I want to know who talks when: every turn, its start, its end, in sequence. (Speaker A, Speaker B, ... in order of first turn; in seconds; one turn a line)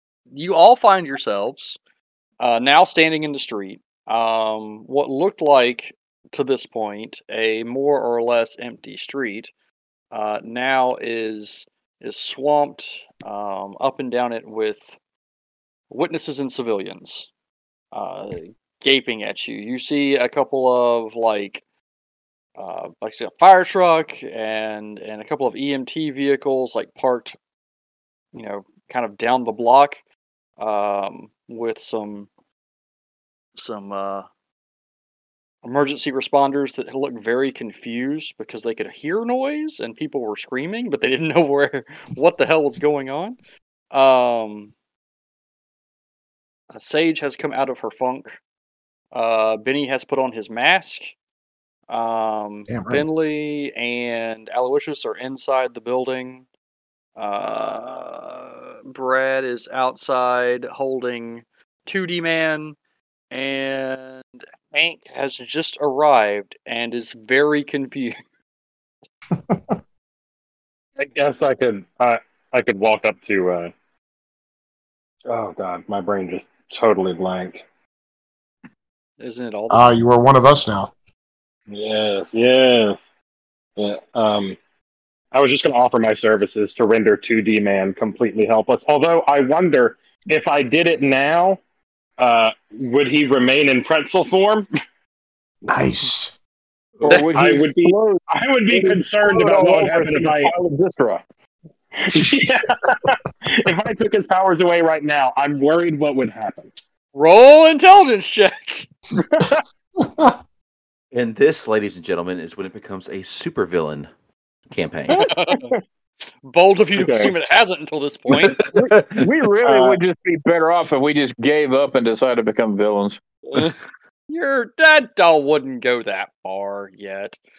Speaker A: 0.3-1.8
Speaker A: 2.4-9.5
Speaker A: 10.1-15.0
Speaker A: 15.9-17.3
Speaker A: 17.9-21.6
Speaker A: 22.6-27.3
Speaker A: 28.3-30.0
Speaker A: 30.6-32.3
Speaker A: 33.5-34.2
Speaker A: 35.6-43.4
Speaker A: 43.9-44.7
Speaker A: 46.7-48.4
Speaker A: 49.1-51.1
Speaker A: 51.9-56.4
Speaker B: 52.7-53.0
Speaker A: 57.2-62.8
Speaker A: 63.3-68.1
Speaker C: 71.0-73.7
Speaker C: 75.3-77.6
Speaker A: 79.2-80.0
Speaker B: 79.7-80.9
Speaker C: 81.7-83.0
Speaker C: 83.8-84.6
Speaker C: 85.3-91.6
Speaker C: 92.2-94.7
Speaker B: 95.7-96.3
Speaker D: 97.0-101.2
Speaker C: 97.3-100.5
Speaker C: 102.0-106.7
Speaker A: 107.1-108.9
Speaker B: 110.0-110.3
Speaker E: 111.1-114.1
Speaker E: 114.7-115.2
Speaker A: 115.1-115.7
Speaker A: 116.4-118.6
Speaker C: 116.9-117.3
Speaker E: 118.3-118.7
Speaker D: 118.7-123.2
Speaker C: 119.6-120.0
Speaker A: 123.5-123.8
Speaker A: 124.3-127.4